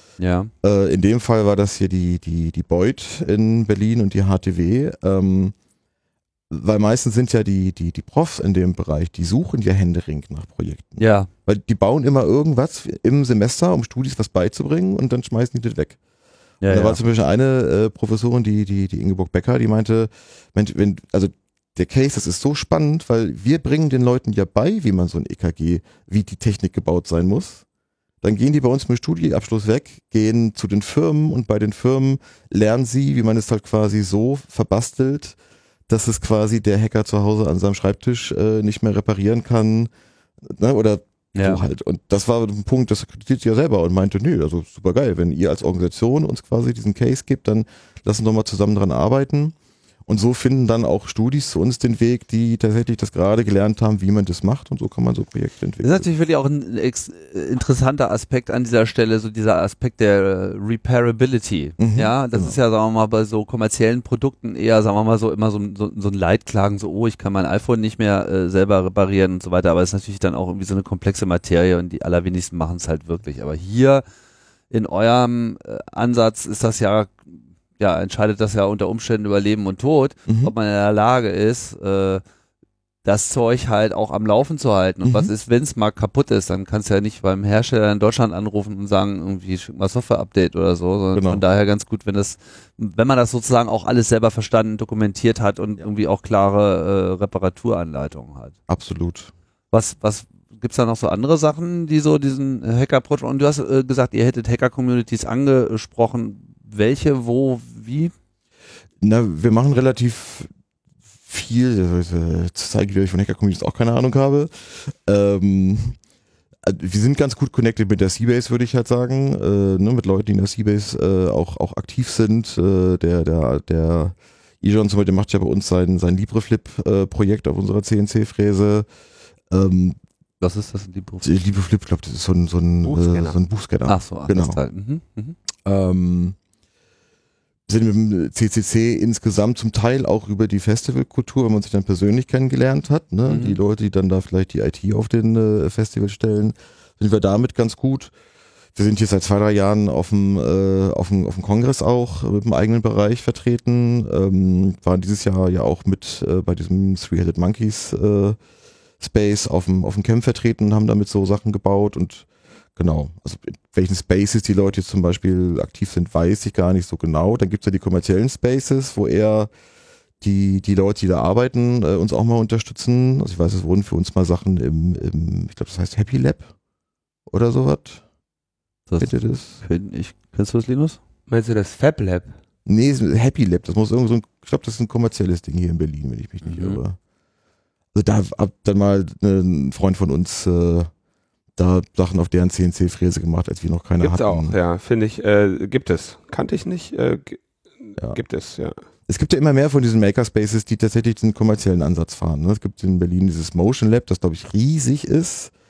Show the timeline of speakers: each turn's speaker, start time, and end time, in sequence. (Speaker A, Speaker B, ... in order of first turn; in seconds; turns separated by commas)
Speaker A: 0.2-0.5, Speaker B: 0.6-5.5, Speaker B: 6.5-16.0, Speaker A: 11.0-11.3, Speaker A: 16.6-17.0, Speaker B: 16.7-27.6, Speaker B: 28.2-35.4, Speaker B: 35.9-39.9, Speaker B: 40.4-49.5, Speaker A: 41.3-41.6, Speaker B: 50.1-56.1, Speaker A: 55.8-74.0, Speaker B: 61.8-62.6, Speaker A: 74.7-82.2, Speaker B: 80.3-80.5, Speaker A: 83.0-98.5, Speaker B: 85.0-85.3, Speaker B: 91.1-91.4, Speaker B: 98.7-99.3, Speaker A: 99.7-108.1, Speaker B: 109.0-110.5, Speaker B: 111.2-116.0, Speaker B: 116.6-128.8, Speaker B: 129.5-130.0, Speaker A: 130.4-131.3, Speaker B: 131.2-134.6, Speaker C: 132.8-133.4, Speaker A: 133.9-135.4, Speaker B: 135.6-136.4, Speaker B: 137.7-148.1, Speaker A: 143.3-143.6, Speaker B: 148.7-158.4, Speaker B: 159.0-169.5, Speaker B: 170.2-176.5, Speaker B: 177.3-178.0, Speaker A: 178.9-181.0, Speaker B: 179.0-179.6, Speaker C: 181.3-182.4, Speaker B: 182.7-187.0, Speaker A: 186.4-186.8, Speaker B: 187.9-190.9, Speaker B: 191.6-194.6, Speaker C: 194.0-198.8, Speaker B: 199.1-205.5